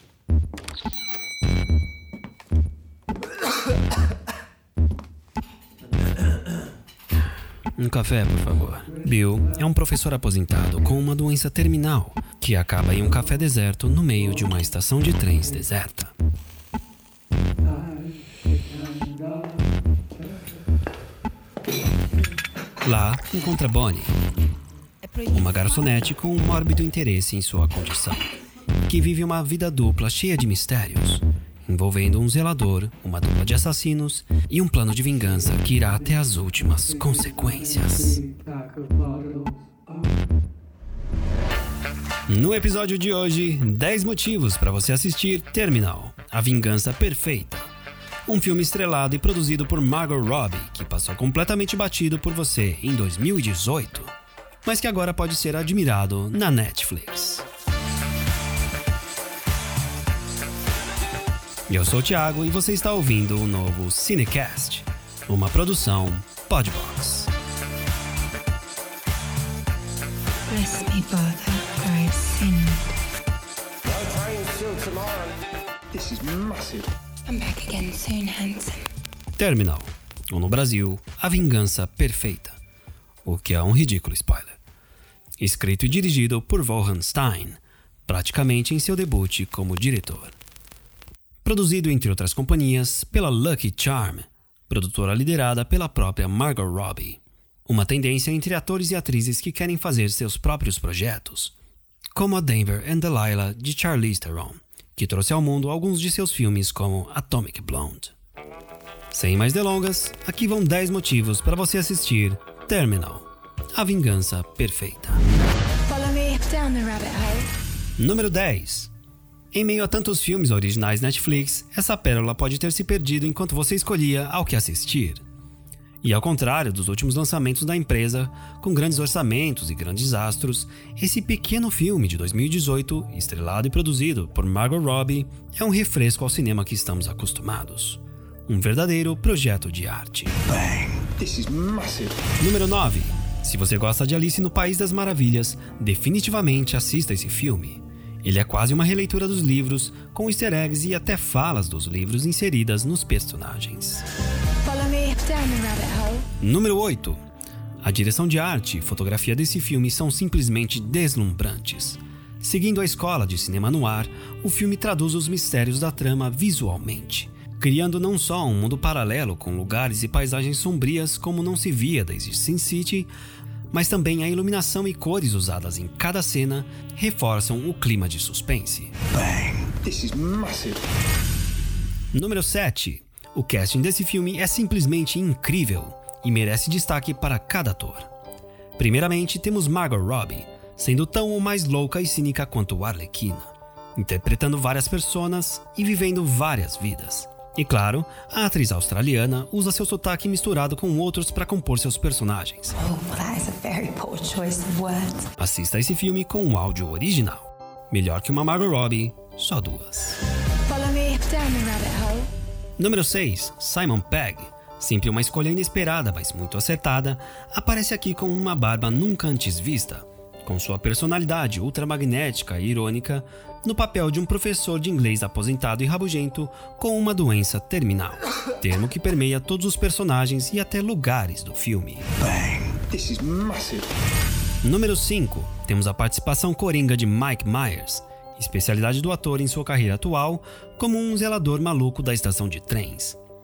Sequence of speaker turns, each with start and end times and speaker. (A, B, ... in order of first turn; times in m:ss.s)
0:07.8-0:16.1 A
0:22.8-0:24.2 A
0:25.0-0:26.0 B
0:25.3-0:28.2 A
0:28.9-0:38.2 A
0:42.3-0:47.7 A
0:48.2-0:54.1 A
0:54.6-0:57.4 A
1:01.7-1:07.3 A
1:10.5-1:11.1 C
1:10.8-1:12.8 B
1:11.6-1:12.3 C
1:14.1-1:15.2 C
1:15.9-1:17.4 C
1:17.3-1:18.8 B
1:19.4-1:22.6 A
1:23.2-1:24.6 A
1:25.4-1:30.4 A
1:31.4-1:41.5 A
1:42.1-1:48.1 A
1:49.1-1:55.2 A
1:55.8-1:57.5 C
1:58.0-1:58.9 A
1:59.5-2:05.2 A
2:06.0-2:20.4 A
2:21.2-2:22.1 C
2:22.4-2:34.1 A
2:34.6-2:36.3 C
2:36.4-2:37.2 A
2:37.8-2:53.1 A
2:53.7-2:58.9 A
2:59.8-3:00.8 C
3:02.1-3:08.1 A
3:08.8-3:22.8 A
3:22.8-3:23.6 C
3:23.0-3:25.2 B
3:24.9-3:25.3 C
3:25.4-3:30.2 A
3:30.6-3:32.3 C
3:32.8-3:52.1 A
3:52.9-3:53.9 C
3:54.6-4:03.2 A